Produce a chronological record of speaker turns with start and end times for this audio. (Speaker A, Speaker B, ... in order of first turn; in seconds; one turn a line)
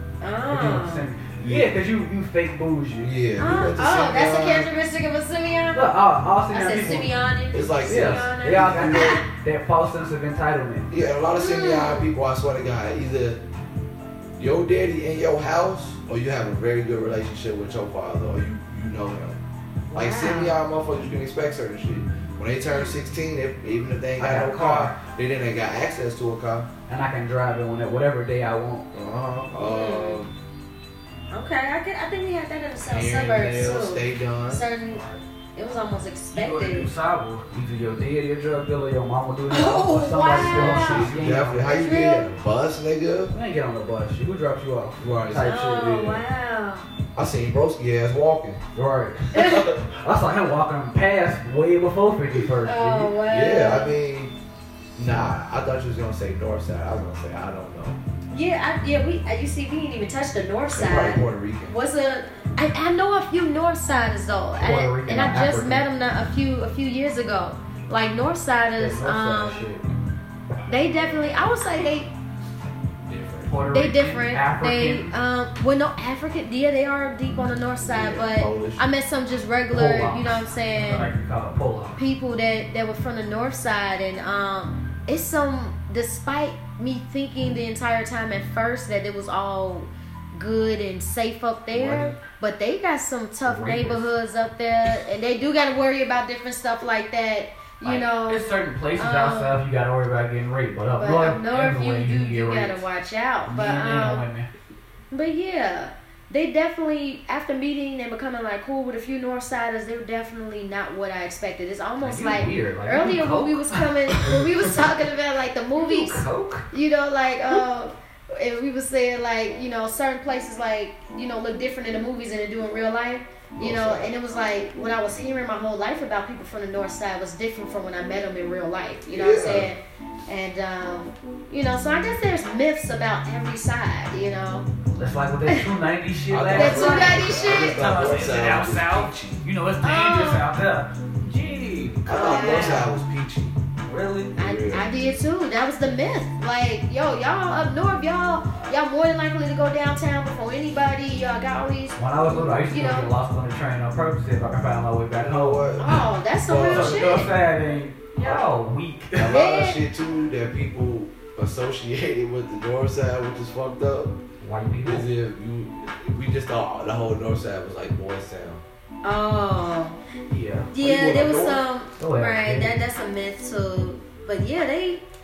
Speaker A: 0.2-1.1
Speaker B: 0.5-3.1
Speaker C: 1.4-1.7
Speaker C: 3.0-4.7
Speaker A: 3.4-5.9
Speaker B: 5.7-7.1
Speaker A: 6.5-9.2
Speaker C: 7.5-9.2
Speaker B: 7.8-10.9
Speaker C: 10.9-13.4
Speaker A: 11.3-12.1
Speaker C: 14.4-19.4
Speaker A: 19.9-20.6
Speaker C: 19.9-26.7
Speaker A: 22.6-22.9
Speaker B: 24.2-24.9
Speaker B: 26.9-28.9
Speaker C: 28.9-30.3
Speaker A: 29.6-30.2
Speaker A: 31.3-35.0
Speaker C: 32.9-34.6
Speaker B: 34.9-35.2
Speaker A: 35.5-36.9
Speaker B: 36.3-41.8
Speaker A: 39.5-41.1
Speaker C: 40.4-43.3
Speaker A: 41.6-42.3
Speaker B: 43.3-45.9
Speaker C: 45.0-46.2
Speaker A: 45.4-46.9
Speaker C: 47.1-48.6
Speaker B: 48.7-53.2
Speaker A: 49.3-49.7
Speaker C: 49.3-49.8
Speaker A: 52.6-53.9
Speaker C: 53.3-54.3
Speaker C: 55.0-58.0
Speaker A: 58.3-69.7
Speaker C: 60.7-61.7
Speaker B: 64.6-65.8
Speaker B: 68.8-69.8
Speaker A: 70.7-72.1
Speaker C: 73.1-73.6
Speaker B: 73.5-75.1
Speaker A: 73.7-81.1
Speaker C: 77.8-78.8
Speaker B: 79.7-82.0
Speaker A: 82.0-99.5
Speaker C: 91.7-92.2
Speaker B: 93.4-94.0
Speaker B: 97.8-102.9
Speaker A: 101.0-104.2
Speaker B: 103.4-104.5
Speaker A: 105.1-134.7
Speaker B: 112.0-114.4
Speaker B: 115.7-116.7
Speaker C: 123.5-124.1
Speaker C: 129.1-129.7
Speaker B: 134.9-143.0
Speaker C: 136.3-139.4
Speaker A: 136.5-137.9
Speaker A: 139.8-140.4
Speaker C: 142.0-143.6
Speaker A: 142.1-142.8
Speaker B: 143.8-144.3
Speaker C: 144.3-144.9
Speaker A: 144.3-153.1
Speaker B: 152.0-159.3
Speaker C: 152.3-152.6
Speaker C: 155.2-155.9
Speaker A: 155.8-157.3
Speaker C: 156.4-157.3
Speaker C: 158.2-158.4
Speaker C: 159.1-164.2
Speaker A: 159.3-159.8
Speaker B: 164.4-165.0
Speaker C: 164.8-168.6
Speaker A: 169.0-170.0
Speaker B: 170.3-170.7
Speaker A: 170.7-175.0
Speaker C: 170.7-171.6
Speaker B: 172.0-172.7